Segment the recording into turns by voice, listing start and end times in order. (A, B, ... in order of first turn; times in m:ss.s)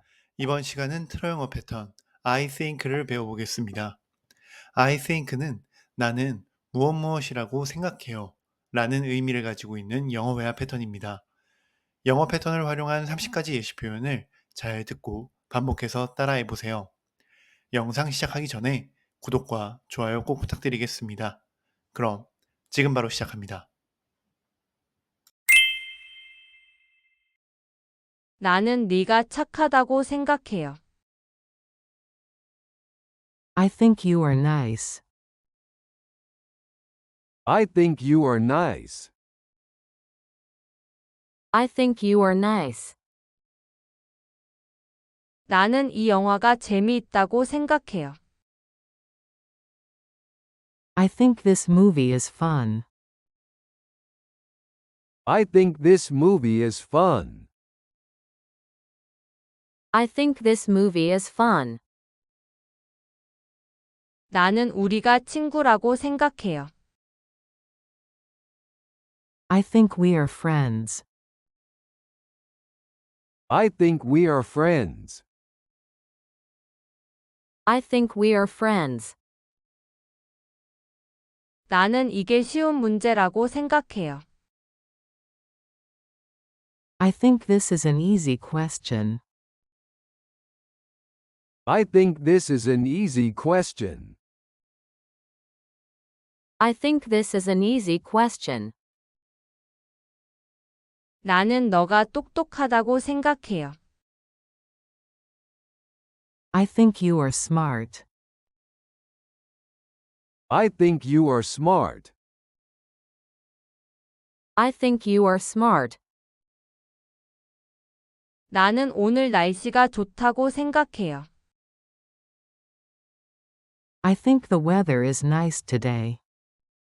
0:00.4-0:04.0 A
0:04.7-0:11.2 A
0:12.0-0:16.9 A
0:17.7-0:21.4 A
0:21.9-0:23.7 A
0:28.4-0:30.8 B
0:33.6-0:35.0 C
0:37.5-0:39.1 D
0:41.5-0:43.0 E
0:45.5-0:48.2 B
0:51.0-0:52.9 C
0:55.3-0:57.5 D
0:59.9-1:01.8 E
1:04.3-1:06.7 B
1:09.5-1:11.0 C
1:13.5-1:15.2 D
1:17.7-1:19.2 E
1:21.7-1:24.2 B
1:27.0-1:29.2 C
1:31.7-1:34.2 D
1:36.6-1:38.7 E
1:41.2-1:43.8 B
1:46.5-1:48.0 C
1:50.5-1:52.1 D
1:54.6-1:56.0 E
1:58.5-2:01.3 B
2:04.0-2:06.2 C